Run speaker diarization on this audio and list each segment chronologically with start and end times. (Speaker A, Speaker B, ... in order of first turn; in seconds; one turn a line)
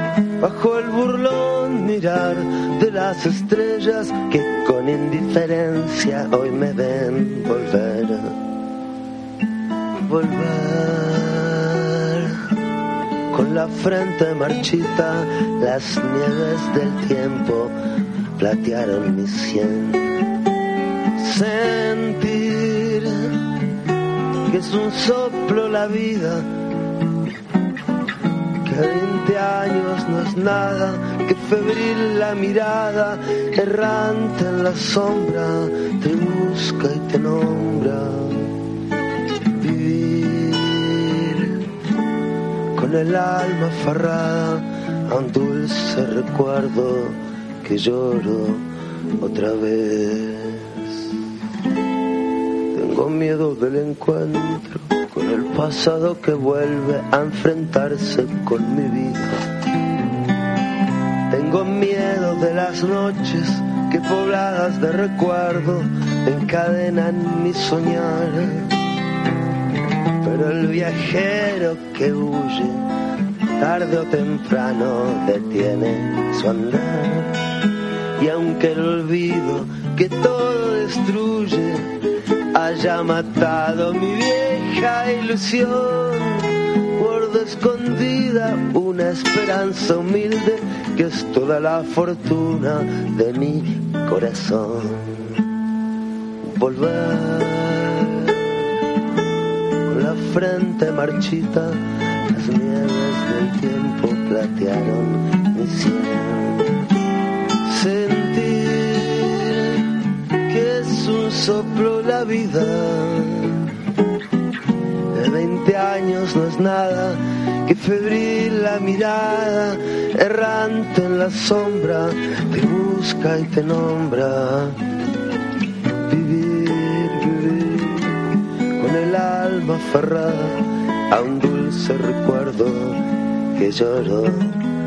Speaker A: 0.4-8.3
Speaker A: 10.1-12.3
Speaker A: 13.3-17.7
Speaker A: 18.4-20.0
Speaker A: 21.2-23.1
Speaker A: 24.5-26.5
Speaker A: 28.6-38.4
Speaker A: 39.6-41.5
Speaker A: 42.8-48.6
Speaker A: 49.2-50.7
Speaker A: 52.8-59.4
Speaker A: 61.3-68.7
Speaker A: 70.2-72.8
Speaker A: 73.6-77.3
Speaker A: 78.2-81.8
Speaker A: 82.5-86.5
Speaker A: 87.0-95.2
Speaker A: 96.6-98.0
Speaker A: 99.9-101.8
Speaker A: 102.3-106.6
Speaker A: 107.7-109.6
Speaker A: 110.5-113.5
Speaker A: 115.1-124.8
Speaker A: 126.1-128.0
Speaker A: 128.8-133.0
Speaker A: 133.6-134.5